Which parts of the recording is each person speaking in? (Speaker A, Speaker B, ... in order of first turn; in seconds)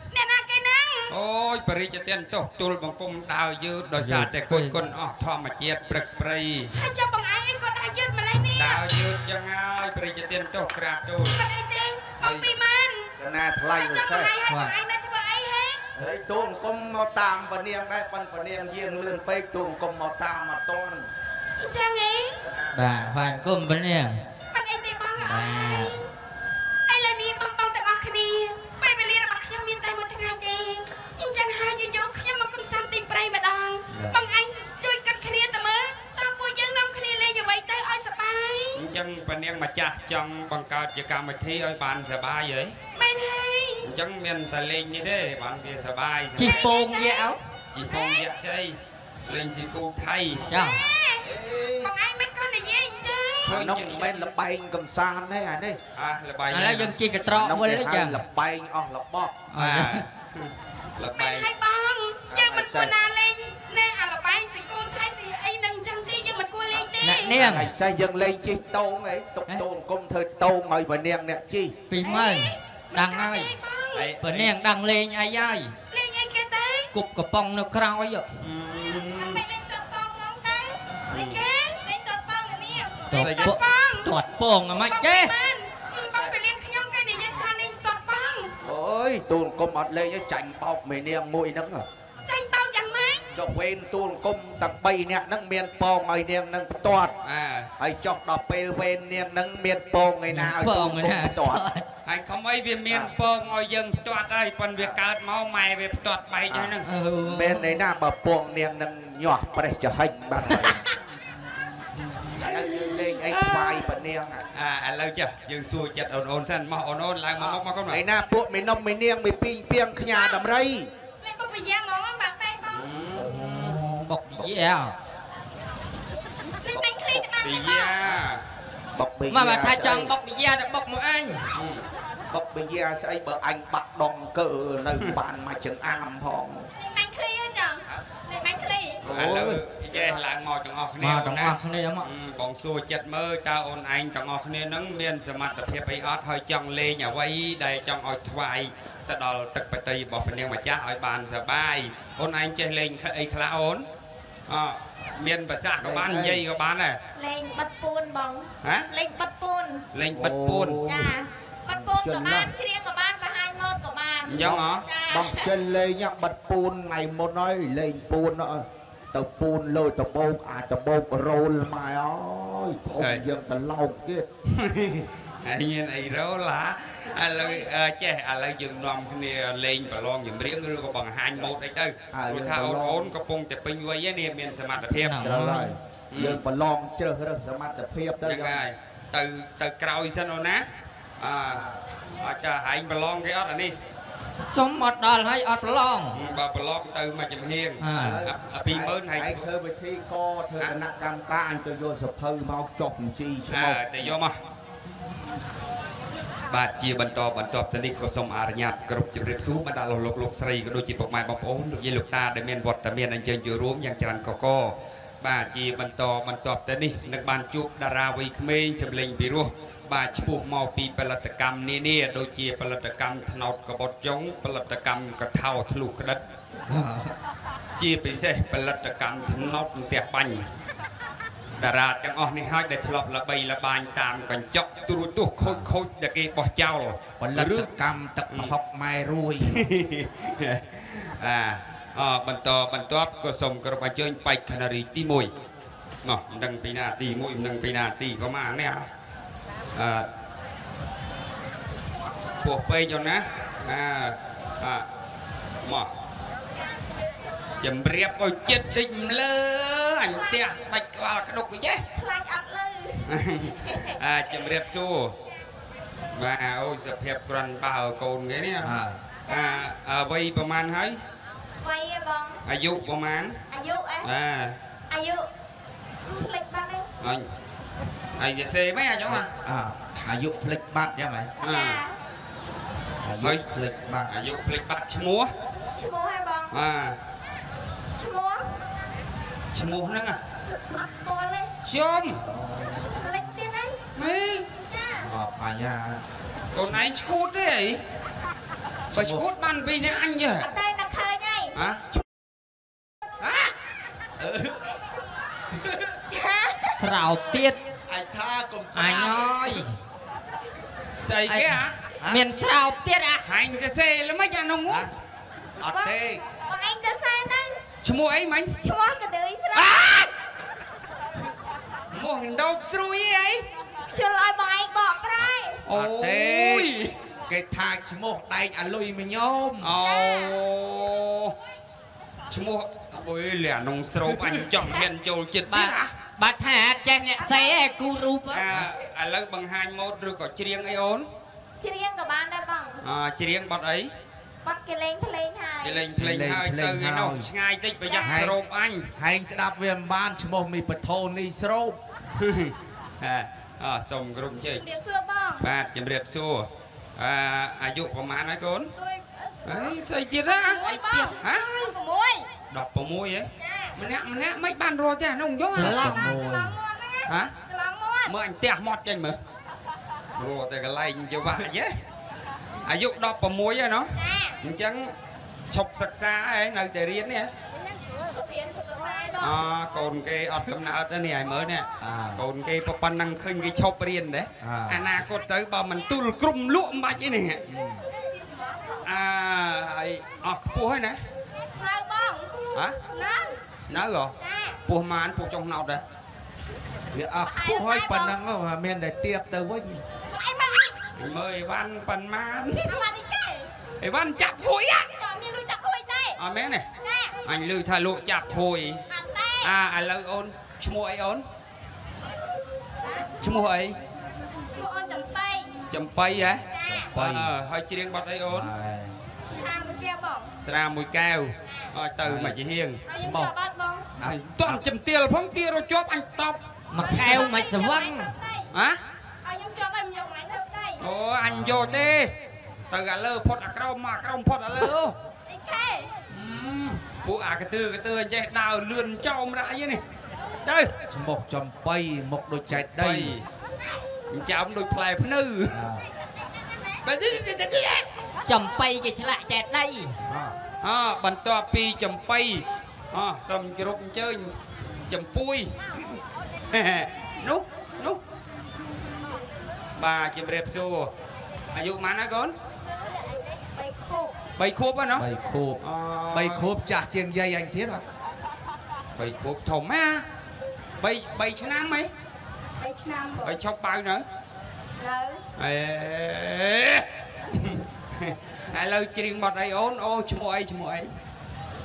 Speaker A: 0.1-1.1, 6.7-8.8, 11.2-13.1, 13.6-15.8, 21.6-22.4, 24.5-26.1, 26.9-38.9, 43.0-43.9, 46.4-47.3, 47.9-48.3, 50.5-51.2, 51.8-53.6, 61.2-67.3, 72.0-74.1, 75.9-76.9, 79.1-84.1, 84.8-88.5, 92.2-93.2, 120.1-120.5, 121.2-122.8, 126.6-128.1, 136.8-139.0, 157.1-159.8, 160.8-165.5, 261.9-264.0, 269.3-269.6, 271.6-272.4, 273.5-274.1, 274.9-275.3, 276.0-276.9, 281.4-282.0, 285.7-286.6, 287.9-288.6, 290.4-291.5, 292.9-293.8, 294.6-295.1, 300.4-301.6, 306.1-306.8, 315.7-317.6, 318.6-320.1, 323.9-325.6, 329.8-330.4, 337.2-337.6, 341.6-342.8, 344.4-345.8, 347.9-348.2, 354.5-355.4, 358.8-362.3, 363.4-363.8, 365.6-368.1, 373.9-374.4, 378.1-379.5, 387.9-388.9, 391.5-393.4, 394.2-394.6, 397.2-398.1, 400.1-400.8, 402.6-403.5, 404.9-406.2, 406.8-407.2, 408.9-409.5, 414.5-415.5, 416.5-416.9, 419.4-420.3, 422.9-423.9, 426.8-428.5, 429.2-430.8, 435.3-435.9, 463.4-464.2, 472.6-473.4, 474.8-475.2
Speaker B: 1.1-6.7, 8.5-11.4, 12.2-12.5, 38.7-42.7, 43.8-46.7, 47.7-50.5, 53.4-54.2, 55.9-56.9, 59.6-61.5, 73.9-74.5, 78.4-79.4, 81.1-81.4, 83.1-83.6, 97.2-97.7, 102.0-106.8, 112.4-113.9, 114.5-118.0, 122.7-123.6, 127.4-128.4, 131.5-131.8, 139.0-153.8, 154.5-157.0, 158.6-158.9, 159.9-160.8, 164.2-164.8, 173.0-173.2, 174.5-185.2, 186.1-186.4, 188.2-190.6, 191.2-191.6, 192.2-193.7, 196.1-199.4, 203.5-204.3, 206.5-226.2, 227.8-230.4, 231.6-237.7, 239.4-245.3, 246.0-248.9, 249.7-250.1, 252.4-254.8, 255.6-255.9, 257.6-261.9, 263.1-265.1, 266.1-271.0, 272.4-273.4, 274.0-274.6, 277.0-277.3, 278.2-279.3, 281.4-281.8, 284.1-285.3, 286.5-287.0, 289.5-290.2, 291.6-292.2, 293.9-294.5, 296.5-297.8, 298.9-300.5, 301.5-301.8, 303.2-303.5, 311.0-311.8, 313.2-314.9, 317.8-318.6, 319.5-320.1, 321.9-323.4, 325.7-326.9, 329.6-331.3, 332.3-335.9, 338.3-341.1, 342.8-343.9, 345.6-348.9, 352.1-354.6, 355.4-358.7, 359.4-360.6, 361.2-361.5, 362.5-365.8, 367.1-367.3, 368.1-369.2, 370.2-371.8, 372.6-374.9, 375.5-377.3, 379.2-387.4, 388.8-391.0, 393.7-394.1, 394.7-395.8, 400.9-402.9, 403.8-404.9, 406.2-406.6, 407.2-408.8, 409.4-411.2, 413.2-413.8, 415.7-418.5, 420.4-422.8, 424.0-426.4, 428.5-428.8, 430.8-432.1, 432.7-434.9, 436.1-439.8, 440.4-440.7, 442.5-443.2, 444.1-445.6, 446.8-447.9, 450.6-454.3, 454.9-456.0, 456.5-458.0, 459.8-460.9, 461.5-462.4, 464.4-465.1, 465.6-466.5, 469.0-470.0, 470.8-471.9, 473.2-474.0, 475.4-480.9
Speaker C: 4.0-4.7, 14.5-14.7, 22.7-24.2, 25.2-26.0, 46.4-47.4, 50.5-50.8, 56.5-58.2, 59.5-60.0, 67.0-67.7, 71.9-73.5, 74.2-75.7, 76.9-78.2, 83.1-85.3, 100.3-101.9, 106.8-107.7, 110.5-110.8, 123.2-124.9, 129.3-131.5, 141.0-142.1, 185.0-185.7, 194.5-196.2, 197.8-198.2, 306.8-307.6, 308.7-309.7, 311.3-313.2, 335.5-338.5, 360.6-361.2, 365.5-366.2, 426.7-428.1, 448.3-449.9
Speaker D: 13.2-14.3, 15.9-21.1, 22.4-23.3, 33.9-34.2, 51.2-51.9, 53.4-55.8, 57.2-59.4, 62.3-62.9, 67.3-71.8, 88.6-91.8, 93.3-97.1, 97.8-101.6, 106.5-106.8, 107.3-110.8, 112.4-114.4, 117.4-120.9, 123.2-124.4, 126.7-127.3, 128.9-130.1, 132.3-136.7, 139.0-140.0, 155.8-156.4, 160.1-161.1, 161.7-162.5, 164.4-174.2, 182.1-183.1, 185.2-188.6, 197.9-204.1, 226.7-227.1, 235.4-235.7, 237.2-239.7, 268.6-269.0, 279.1-281.3, 283.0-284.1, 292.1-292.8, 295.0-296.0, 298.9-299.2, 304.2-304.6, 305.6-305.8, 307.9-309.5, 312.0-312.2, 315.6-316.2, 325.2-326.7, 327.3-329.8, 345.9-347.3, 348.0-348.4, 348.9-351.8, 365.5-366.6, 381.8-382.2, 384.4-384.8, 387.5-387.8, 396.9-399.8, 416.6-417.3, 418.3-418.9, 422.0-422.4, 422.9-423.3, 424.0-424.6, 431.2-431.9, 440.9-443.1, 445.5-445.8, 450.1-450.4, 465.0-467.8